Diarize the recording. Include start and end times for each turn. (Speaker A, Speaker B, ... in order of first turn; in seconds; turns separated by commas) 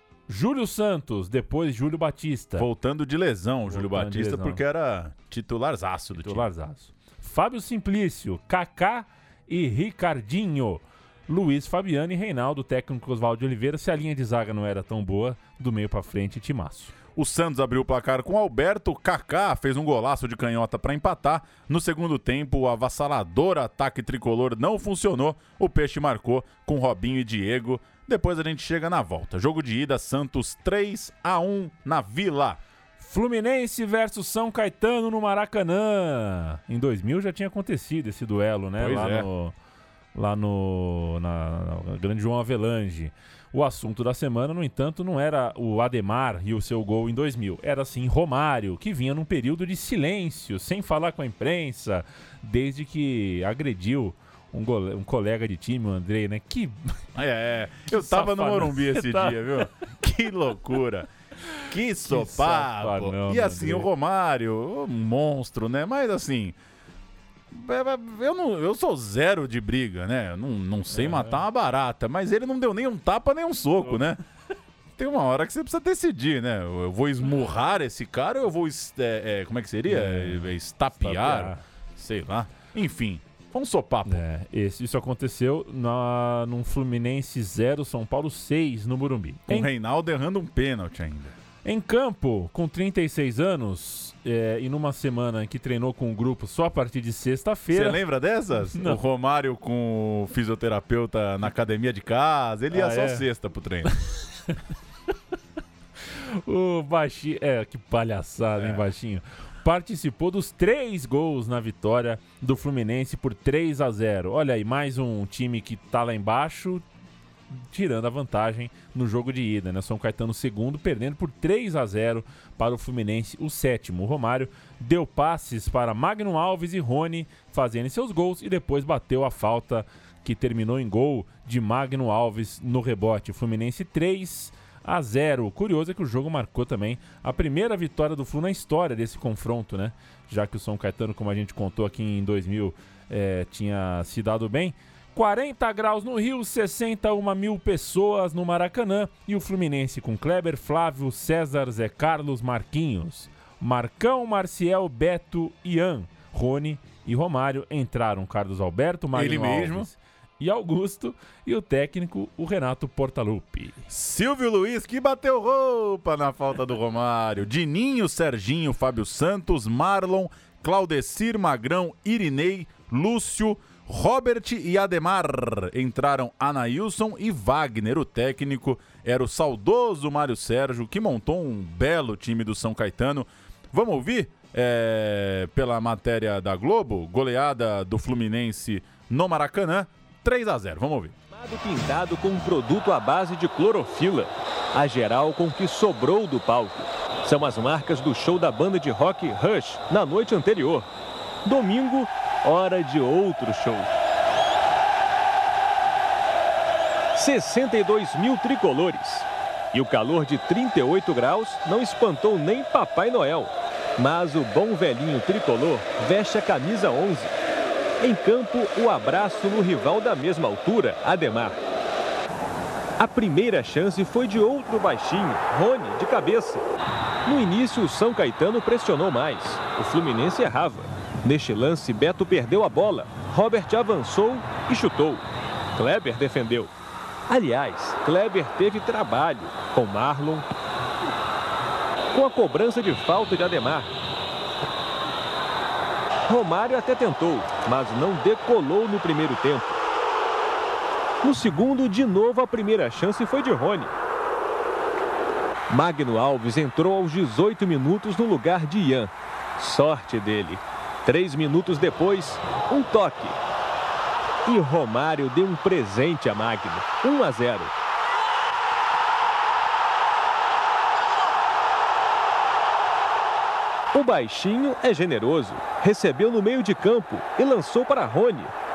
Speaker A: 0.3-2.7, Speaker B: 2.5-6.5, Speaker A: 3.7-4.6, Speaker A: 6.2-16.9, Speaker B: 17.1-32.6, Speaker A: 33.0-39.5, Speaker B: 38.8-39.3, Speaker A: 40.1-57.0, Speaker B: 57.1-61.1, Speaker A: 57.9-59.5, Speaker B: 61.7-66.5, Speaker A: 62.1-63.9, Speaker B: 67.5-74.2, Speaker A: 70.9-71.4, Speaker B: 75.0-84.2, Speaker A: 79.9-81.6, Speaker A: 84.1-89.7, Speaker B: 89.5-91.3, Speaker A: 91.6-98.0, Speaker B: 97.7-103.9, Speaker A: 102.7-103.2, Speaker A: 106.2-116.8, Speaker B: 108.5-108.8, Speaker A: 117.5-163.8, Speaker B: 159.1-159.9, Speaker B: 163.9-191.1, Speaker C: 191.3-200.9, Speaker C: 201.4-203.9, Speaker C: 207.1-217.3, Speaker C: 218.0-221.6, Speaker C: 223.0-226.6, Speaker C: 227.2-235.2, Speaker C: 235.7-236.7, Speaker C: 237.3-240.5, Speaker C: 242.1-243.9, Speaker C: 246.3-249.8, Speaker C: 251.2-253.9, Speaker C: 255.7-263.4, Speaker C: 264.4-267.7, Speaker C: 273.9-278.5